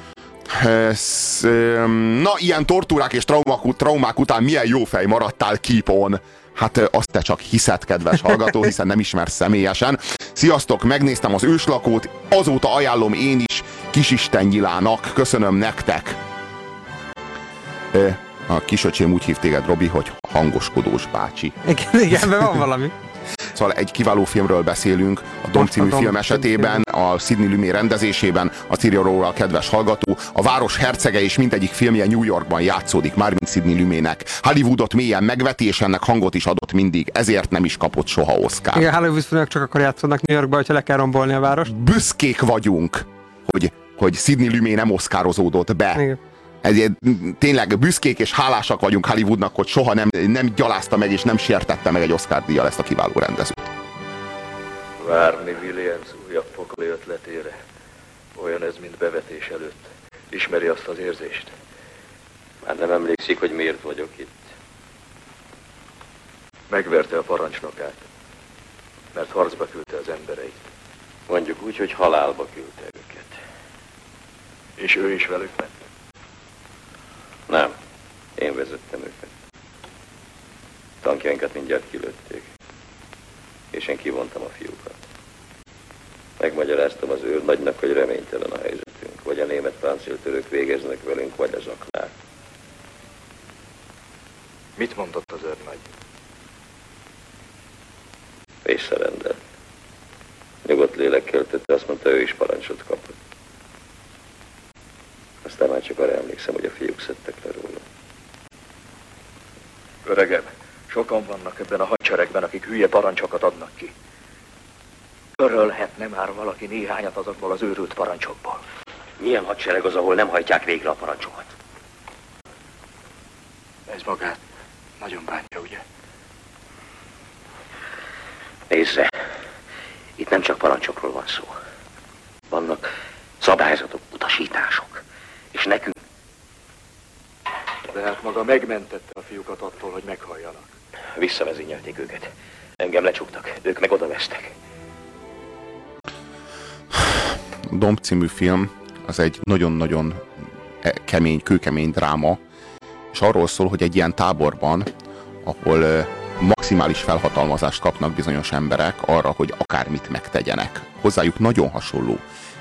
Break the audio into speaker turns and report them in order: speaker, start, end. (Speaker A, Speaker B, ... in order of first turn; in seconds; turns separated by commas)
Speaker A: 0.5-16.2, Speaker A: 17.9-21.6, Speaker B: 21.6-22.9, Speaker A: 23.5-38.9, Speaker B: 25.6-26.8, Speaker B: 38.7-41.7, Speaker A: 41.6-46.0, Speaker A: 46.6-53.7, Speaker C: 55.0-57.5, Speaker C: 58.4-61.5, Speaker D: 62.6-64.5, Speaker C: 66.7-68.0, Speaker C: 69.1-70.6, Speaker D: 71.3-73.3, Speaker C: 74.8-75.7, Speaker D: 77.5-77.7, Speaker D: 78.4-79.3, Speaker D: 81.0-82.5, Speaker D: 83.7-85.0, Speaker D: 86.4-92.1, Speaker C: 94.8-95.8, Speaker D: 98.6-99.4, Speaker D: 100.6-103.2, Speaker D: 105.4-107.8, Speaker C: 110.0-113.9, Speaker C: 115.4-118.6, Speaker E: 119.2-121.5, Speaker C: 123.9-124.4, Speaker C: 125.0-125.8, Speaker E: 128.7-129.1, Speaker E: 130.2-131.5, Speaker E: 132.5-132.9, Speaker E: 133.4-135.0, Speaker E: 135.5-135.9, Speaker C: 137.9-140.7, Speaker E: 141.2-144.5, Speaker A: 146.9-150.2, Speaker A: 150.8-152.4, Speaker A: 153.1-154.9, Speaker A: 155.4-162.2